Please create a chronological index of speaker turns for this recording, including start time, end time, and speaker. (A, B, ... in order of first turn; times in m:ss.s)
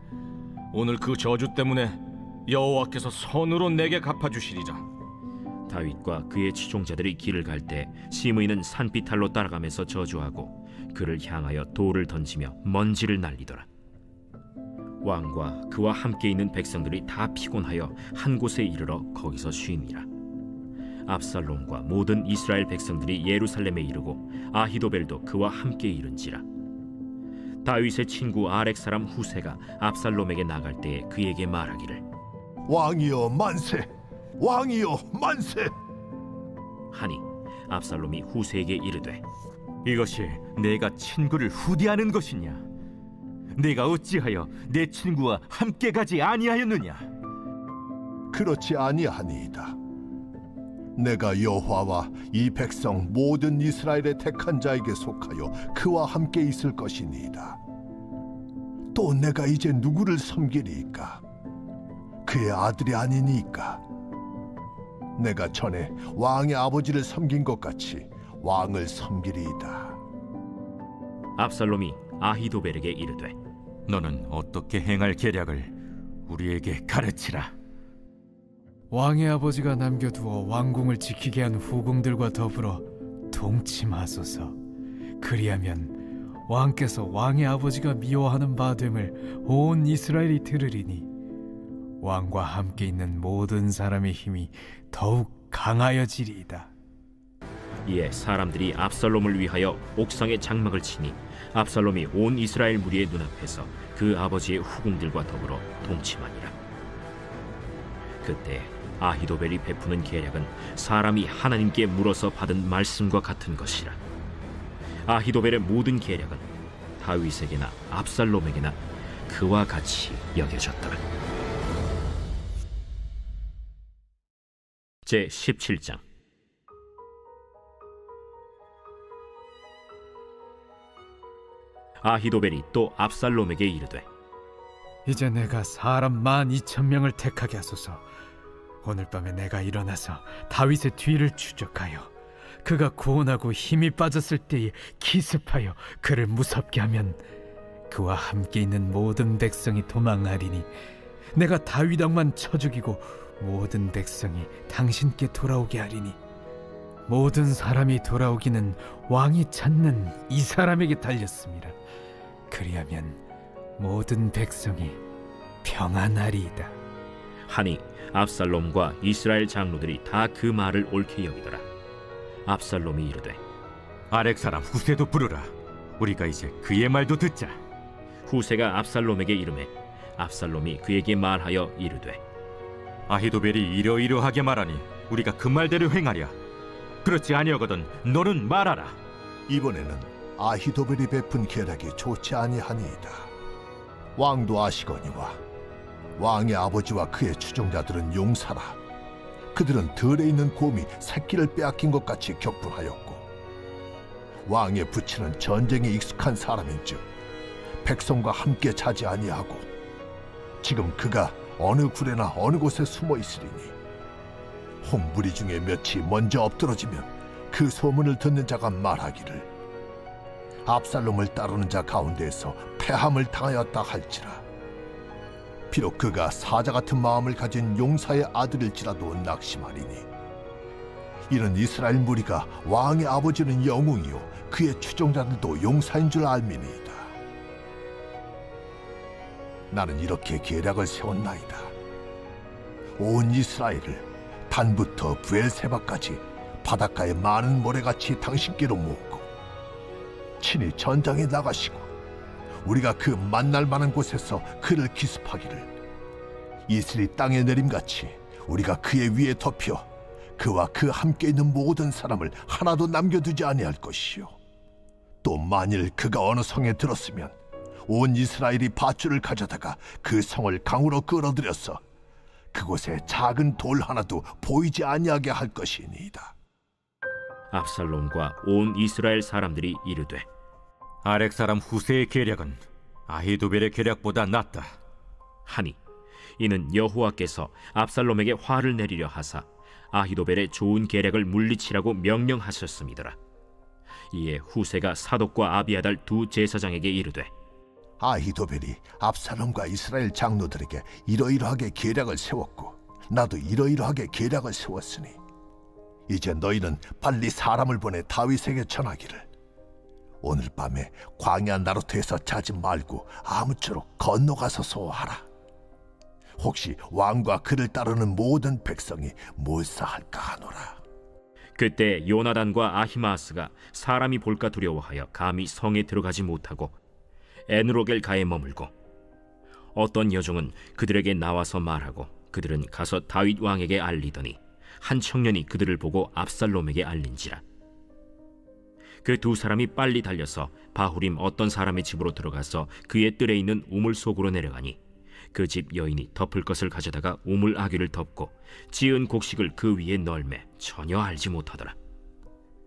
0:00.7-0:04.8 A
0:05.7-0:13.7 B
0:15.0-0:20.1 B
0:21.1-0:26.4 B
0:27.6-0:32.0 B
0:32.7-0:35.7 C
0:36.9-0:39.2 B
0:39.8-0:42.6 D
0:43.6-0:47.1 D
0:48.3-0:49.8 C
0:51.0-0:57.6 C
0:58.9-1:01.2 C
1:02.2-1:03.8 C
1:05.2-1:10.0 C
1:11.4-1:13.4 B
1:13.9-1:15.7 D
1:16.3-1:17.5 D
1:18.9-1:24.6 E
1:25.2-1:31.1 E
1:32.0-1:36.7 E
1:37.9-1:46.5 B
1:48.2-1:54.0 B
1:55.1-1:56.5 B
1:57.0-2:01.0 B
2:05.0-2:06.0 B
2:12.0-2:14.0 B
2:15.1-2:18.1 E
2:18.8-2:22.1 E
2:22.6-2:27.2 E
2:27.9-2:30.7 E
2:31.3-2:36.2 E
2:37.1-2:41.8 E
2:42.5-2:43.2 E
2:43.8-2:45.0 E
2:45.6-2:46.8 E
2:47.5-2:51.6 B
2:52.5-2:53.4 B
2:54.1-2:57.6 D
2:58.3-3:02.2 B
3:03.1-3:06.4 D
3:07.0-3:09.0 D
3:09.5-3:13.3 C
3:14.2-3:15.4 C
3:16.2-3:18.8 C
3:19.5-3:23.2 C
3:24.5-3:27.0 C
3:27.8-3:29.7 C
3:30.6-3:33.8 C
3:34.8-3:39.5 C
3:40.6-3:44.4 C
3:45.7-3:50.1 C
3:51.3-3:57.1 C
3:59.7-4:01.7 C
4:03.0-4:09.3 C
4:10.4-4:11.9 C
4:12.6-4:15.7 C
4:16.7-4:24.4 C
4:25.2-4:27.4 C
4:27.9-4:31.8 C
4:32.5-4:36.3 C
4:37.5-4:40.3 B
4:41.0-4:44.8 D
4:45.5-4:45.8 B
4:46.4-4:53.2 B
4:54.1-4:57.3 B
4:58.0-5:05.2 C
5:06.1-5:09.3 C
5:10.2-5:15.2 C
5:16.4-5:20.8 C
5:21.6-5:26.8 B
5:27.5-5:28.7 B
5:29.8-5:37.4 B
5:39.0-5:44.8 B
5:45.3-5:51.8 B